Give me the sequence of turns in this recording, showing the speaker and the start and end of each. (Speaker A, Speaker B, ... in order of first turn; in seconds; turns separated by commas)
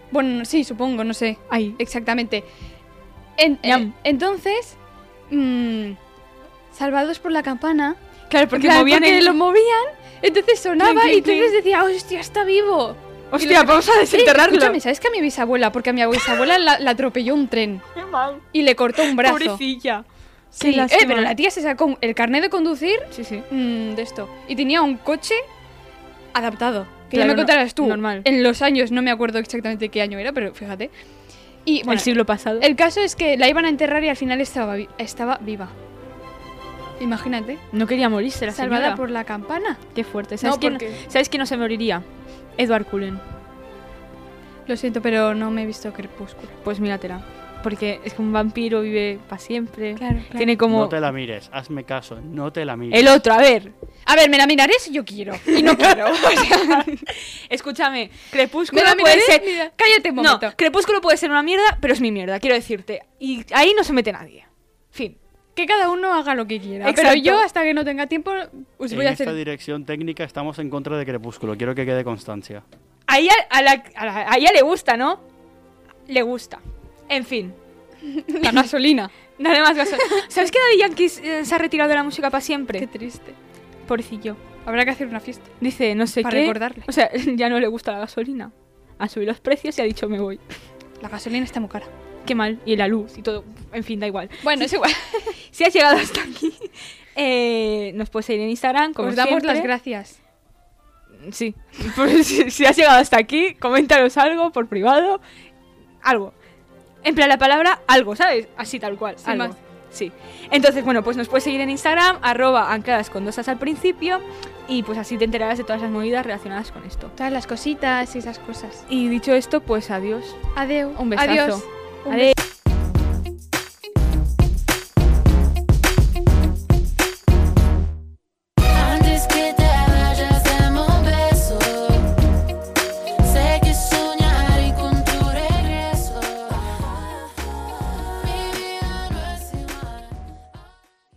Speaker A: 0.1-2.5, Speaker B: 1.5-1.8, Speaker A: 3.4-4.8, Speaker B: 3.6-3.9, Speaker A: 5.3-6.0, Speaker A: 6.7-8.0, Speaker B: 8.3-9.4, Speaker A: 8.5-17.8, Speaker B: 10.8-11.5, Speaker B: 13.3-14.8, Speaker B: 17.9-18.4, Speaker A: 18.5-19.6, Speaker B: 19.0-20.0, Speaker A: 20.5-25.4, Speaker B: 20.6-21.3, Speaker B: 23.1-23.4, Speaker A: 26.3-30.9, Speaker B: 27.1-28.3, Speaker A: 31.6-35.7, Speaker B: 31.9-32.7, Speaker A: 37.0-37.6, Speaker B: 37.7-39.0, Speaker A: 38.5-39.8, Speaker B: 39.9-42.0, Speaker A: 40.4-41.0, Speaker B: 42.6-43.2, Speaker A: 44.7-46.5, Speaker B: 46.6-51.0, Speaker A: 50.0-50.5, Speaker C: 50.7-53.2, Speaker B: 52.9-53.7, Speaker A: 54.1-57.0, Speaker B: 55.5-59.5, Speaker A: 58.7-60.5, Speaker B: 60.2-65.2, Speaker A: 65.5-69.4, Speaker B: 66.8-67.4, Speaker C: 68.9-72.6, Speaker B: 73.1-75.2, Speaker B: 76.1-77.5, Speaker A: 78.1-79.1, Speaker B: 79.4-82.9, Speaker A: 82.8-83.3, Speaker B: 83.9-84.4, Speaker A: 84.6-85.5, Speaker B: 85.6-90.4, Speaker A: 86.2-86.9, Speaker A: 91.0-91.9, Speaker B: 92.2-94.7, Speaker A: 94.4-95.3, Speaker B: 95.5-99.7, Speaker A: 99.0-100.2, Speaker B: 101.2-105.2, Speaker B: 106.0-106.3, Speaker B: 107.0-117.1, Speaker A: 109.2-109.5, Speaker A: 117.2-118.8, Speaker B: 118.9-122.3, Speaker A: 120.5-122.3, Speaker D: 128.8-131.8, Speaker D: 133.4-136.1